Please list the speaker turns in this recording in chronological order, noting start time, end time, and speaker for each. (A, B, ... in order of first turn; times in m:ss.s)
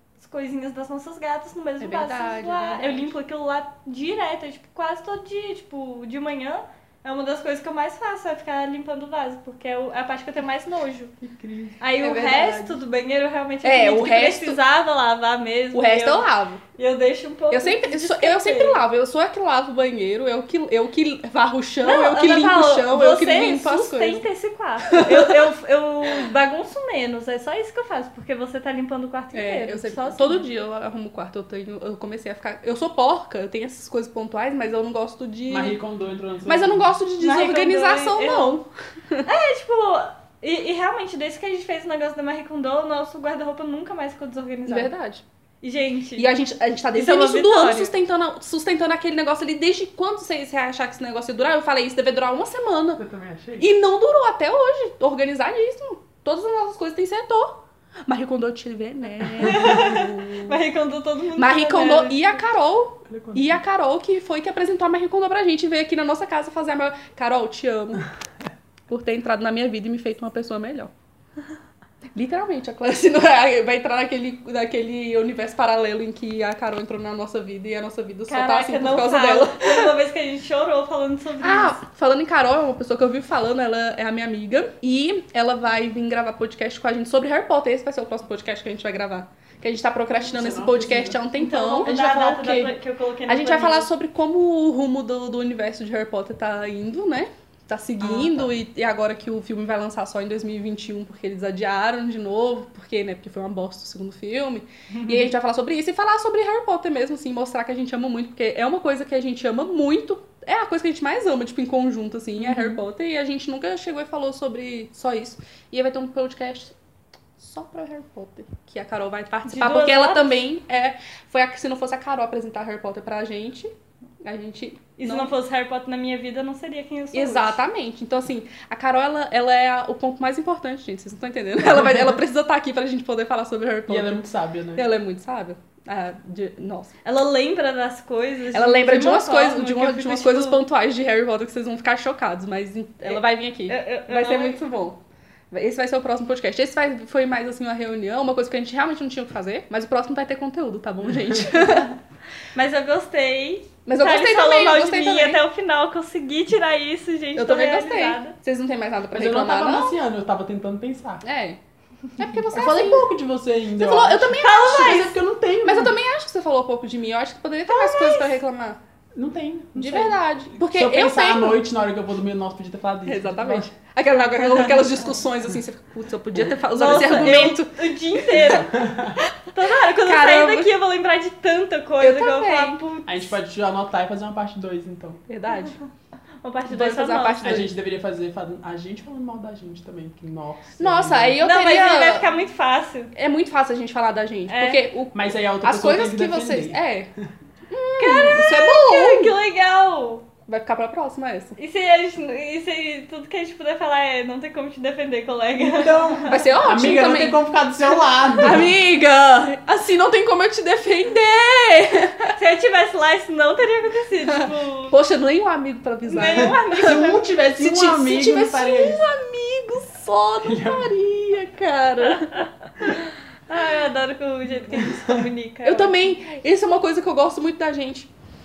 0:00.2-0:11.1 A
0:01.8-0:03.2 B
0:11.2-0:11.8 C
0:11.8-0:18.8 A
0:12.0-0:12.8 B
0:13.6-0:14.6 B
0:15.7-0:16.6 B
0:17.5-0:24.2 B
0:21.8-0:30.5 A
0:24.9-0:25.5 B
0:29.3-0:35.8 B
0:35.5-0:36.9 C
0:36.5-0:39.3 B
0:37.2-0:38.6 A
0:39.3-0:44.9 A
0:44.7-0:45.2 B
0:45.6-0:46.3 A
0:46.2-0:53.0 B
0:46.9-0:47.9 A
0:53.0-0:53.7 C
0:53.6-1:00.6 B
0:59.4-1:02.4 A
1:01.4-1:08.1 B
1:03.1-1:03.6 C
1:08.9-1:10.9 B
1:12.1-1:19.9 B
1:18.3-1:21.8 A
1:21.4-1:32.0 B
1:30.2-1:31.2 C
1:31.4-1:33.9 A
1:31.8-1:32.8 C
1:33.3-1:56.8 B
1:38.0-1:38.5 C
1:52.4-1:52.8 A
1:57.4-2:05.3 B
1:59.5-2:00.4 A
2:05.0-2:07.6 A
2:07.1-2:17.0 B
2:13.9-2:14.9 C
2:17.0-2:20.6 A
2:18.5-2:25.0 B
2:23.0-2:24.6 A
2:25.5-2:32.0 B
2:32.5-2:38.3 A
2:33.9-2:35.4 B
2:37.4-2:40.0 B
2:39.1-2:41.2 C
2:41.2-2:41.6 B
2:42.2-2:43.1 B
2:42.5-2:46.0 C
2:43.8-2:48.8 B
2:44.4-2:45.2 A
2:47.7-2:48.3 A
2:49.2-2:53.7 C
2:49.8-2:51.6 B
2:53.0-2:58.6 B
2:54.5-2:54.9 A
2:56.7-2:58.8 A
2:58.4-2:59.2 C
2:59.2-3:00.7 B
2:59.5-3:03.4 A
3:02.0-3:02.8 B
3:03.1-3:05.2 C
3:05.3-3:05.8 B
3:06.4-3:07.7 A
3:06.7-3:07.7 B
3:07.4-3:11.4 C
3:10.8-3:12.3 B
3:11.4-3:13.1 A
3:13.1-3:17.1 B
3:14.5-3:14.8 A
3:15.1-3:16.8 C
3:17.7-3:19.3 B
3:18.0-3:20.3 A
3:20.5-3:21.6 B
3:21.6-3:26.4 A
3:25.6-3:28.8 C
3:26.3-3:27.4 B
3:28.4-3:32.3 B
3:32.4-3:35.0 A
3:34.9-3:42.5 B
3:36.1-3:37.2 A
3:36.3-3:39.0 C
3:40.4-3:41.0 C
3:42.1-3:46.0 A
3:44.9-3:45.2 C
3:45.6-3:48.1 B